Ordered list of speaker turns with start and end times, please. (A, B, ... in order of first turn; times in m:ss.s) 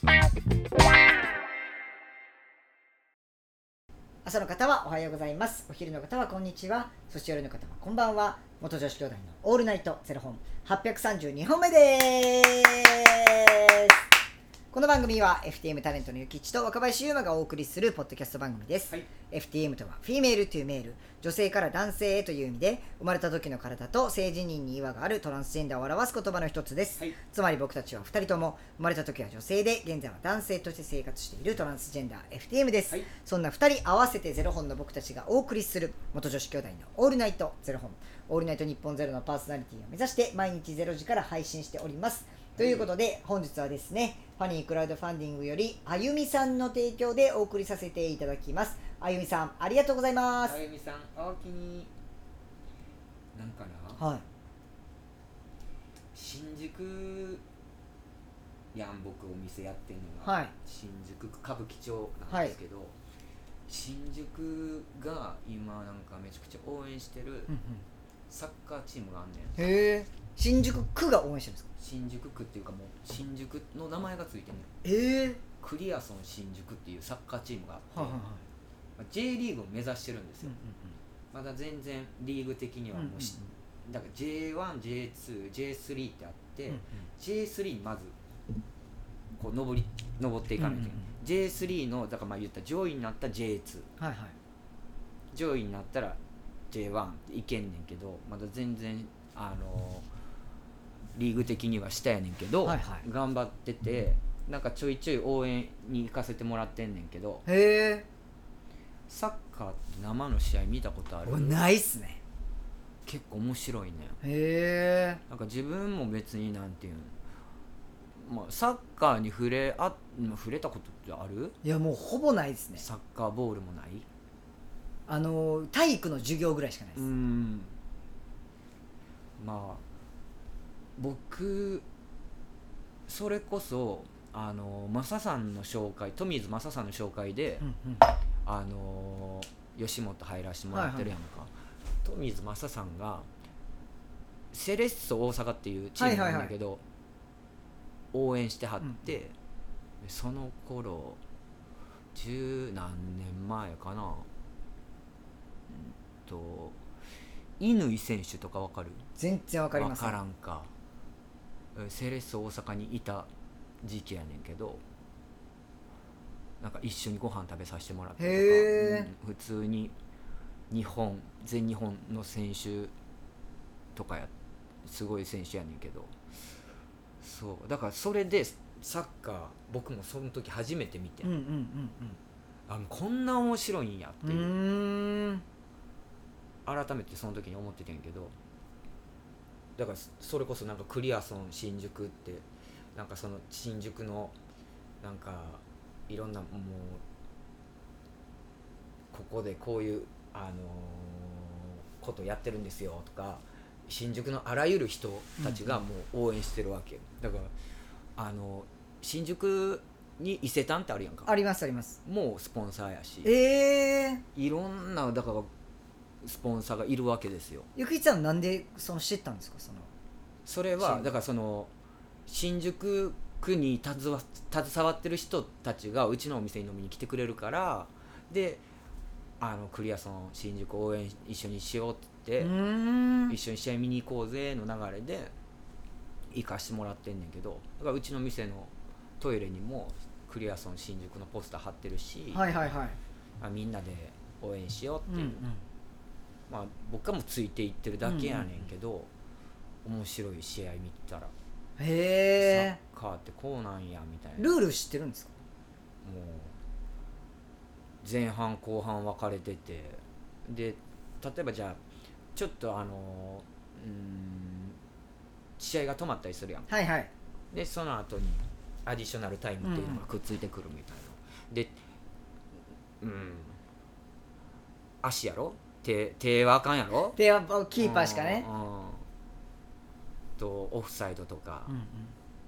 0:04.2-0:14.0 A
0:14.7-0:50.6 A
0:42.6-0:42.9 B
0:50.4-0:51.9 B
0:53.3-0:54.0 B
0:54.0-0:54.2 A
0:56.1-0:57.4 B
0:58.7-1:03.0 B
1:00.2-1:00.5 A
1:02.3-1:02.6 A
1:03.7-1:07.5 B
1:07.5-1:07.8 A
1:08.3-1:09.6 B
1:09.6-1:11.7 A
1:11.8-1:14.7 B
1:14.8-1:15.4 A
1:15.6-1:18.2 B
1:17.9-1:18.4 A
1:19.0-1:20.6 B
1:20.4-1:21.0 A
1:21.3-1:28.2 B
1:22.9-1:23.4 A
1:26.7-1:27.0 A
1:29.4-1:33.9 B
1:30.6-1:31.1 A
1:34.0-1:34.4 A
1:35.3-1:36.2 B
1:36.7-1:40.1 B
1:41.1-1:47.4 B
1:42.6-1:43.0 A
1:47.5-1:48.1 A
1:49.1-1:51.6 B
1:51.2-1:52.2 A
1:53.1-1:54.2 B
1:54.2-1:55.2 A
1:55.3-1:57.2 B
1:58.2-2:01.6 B
2:01.6-2:02.8 A
2:02.8-2:04.1 B
2:05.1-2:07.1 A
2:07.0-2:07.7 B
2:09.4-2:09.8 B
2:11.0-2:11.9 B
2:13.1-2:17.6 B
2:17.6-2:18.1 A
2:18.4-2:23.3 B
2:20.7-2:21.1 A
2:24.5-2:26.8 B
2:26.0-2:26.5 A
2:28.1-2:29.4 B
2:30.0-2:31.2 B
2:32.2-2:34.3 B
2:36.3-2:36.8 B
2:37.6-2:39.1 B
2:39.2-2:40.2 A
2:39.7-2:40.7 B
2:41.8-2:43.3 B
2:43.8-2:44.8 B
2:46.6-2:50.0 B
2:48.2-2:49.1 A
2:50.7-2:52.9 B
2:54.0-2:54.3 B
2:54.8-2:56.2 B
2:57.2-3:01.3 B
3:01.2-3:02.2 A
3:02.7-3:04.5 B
3:04.2-3:05.4 A
3:06.7-3:08.4 B
3:09.8-3:12.4 B
3:13.0-3:14.4 B
3:15.0-3:17.0 B
3:19.1-3:27.5 B
3:25.4-3:25.8 A
3:28.2-3:31.3 B
3:31.3-3:32.0 A
3:32.0-3:33.3 B
3:33.2-3:34.2 A
3:34.4-3:35.5 B
3:36.2-3:37.7 B
3:37.8-3:39.9 A
3:40.4-3:41.7 B
3:40.8-3:41.1 A
3:42.3-3:48.6 B
3:49.4-3:52.5 B
3:52.4-3:53.4 A
3:53.3-3:55.3 B
3:56.3-4:02.5 B
4:02.3-4:03.0 A
4:03.4-4:05.4 B
4:05.1-4:05.6 A
4:06.5-4:09.1 B
4:08.0-4:08.5 A
4:09.8-4:11.3 B
4:11.8-4:12.8 A
4:12.4-4:14.6 B
4:14.4-4:15.3 A
4:16.0-4:16.6 B
4:18.0-4:21.8 B
4:22.4-4:24.8 B
4:25.6-4:26.7 B
4:26.7-4:27.1 A
4:27.5-4:31.8 B
4:29.6-4:30.0 A
4:33.0-4:33.6 B
4:35.0-4:37.2 B
4:37.1-4:38.5 A
4:37.8-4:39.0 B
4:40.4-4:41.7 B
4:41.7-4:42.2 A